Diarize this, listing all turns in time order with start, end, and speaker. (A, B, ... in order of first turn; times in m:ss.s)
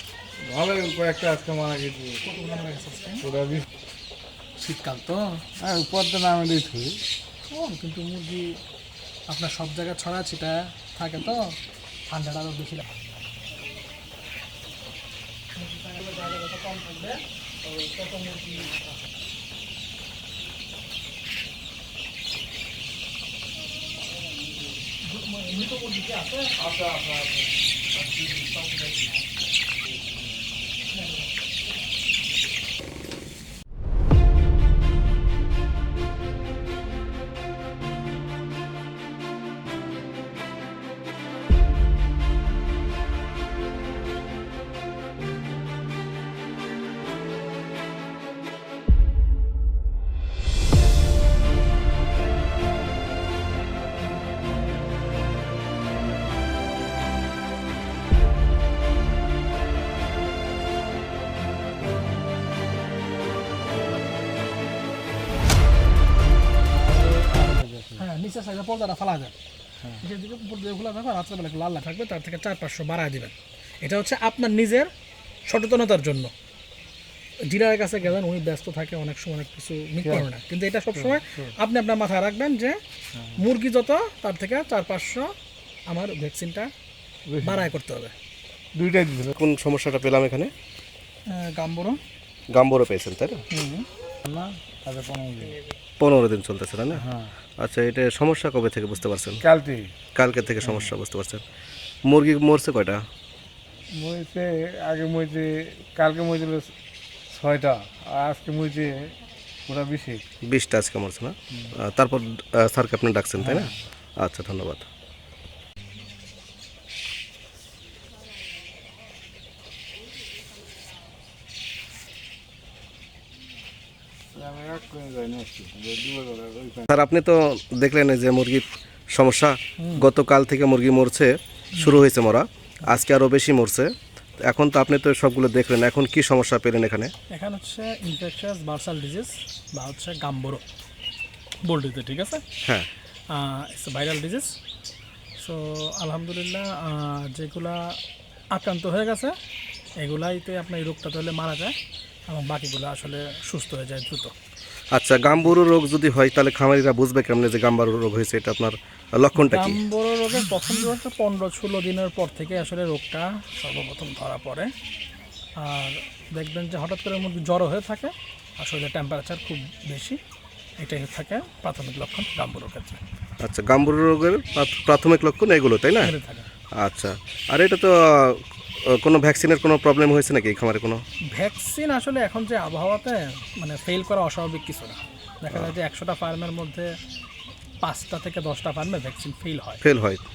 0:00.4-0:02.2 A
0:02.2-0:03.2 B
0:03.2-0:03.6 A
0:04.6-0:05.4 B
0:05.6-0:07.0 A
0:07.5-0:08.6 B
0:09.3-0:11.6 B
0:12.1-0:12.9 B
0:15.6-0:18.9 B
0:25.0-0:26.6 B
0:26.6-0:29.2 A
0:30.9-0:31.3 B
1:06.7-1:08.0 A
1:08.0-1:09.3 B
1:10.0-1:14.9 B
1:15.4-1:16.3 B
1:17.4-1:22.8 B
1:21.0-1:21.5 A
1:23.2-1:23.4 A
1:23.3-1:25.3 B
1:25.9-1:26.7 B
1:27.3-1:27.7 A
1:27.4-1:28.1 B
1:28.7-1:29.3 A
1:29.3-1:30.5 C
1:31.3-1:32.0 B
1:32.5-1:33.4 C
1:33.5-1:33.8 B
1:34.2-1:35.6 A
1:35.4-1:35.7 B
1:36.0-1:37.0 C
1:36.9-1:37.3 A
1:37.6-1:39.4 C
1:39.4-1:39.9 A
1:40.1-1:41.4 C
1:42.1-1:43.0 C
1:44.0-1:46.7 A
1:47.3-1:49.1 A
1:49.7-1:50.2 A
1:50.4-1:54.8 C
1:53.4-1:53.7 A
2:04.3-2:06.8 A
2:06.9-2:13.9 C
2:09.8-2:10.0 B
2:14.4-2:17.1 C
2:17.3-2:20.6 B
2:21.6-2:22.4 B
2:23.3-2:24.5 B
2:25.4-2:28.0 B
2:28.5-2:29.4 B
2:30.0-2:31.8 B
2:32.3-2:34.3 B
2:34.9-2:39.8 C
2:39.3-2:44.7 B
2:45.6-2:50.2 B
2:50.8-2:53.0 B
2:53.4-2:56.1 C
2:56.0-2:56.5 B
2:56.8-3:01.0 C
3:01.3-3:06.9 B
3:07.8-3:09.8 B
3:09.8-3:10.2 C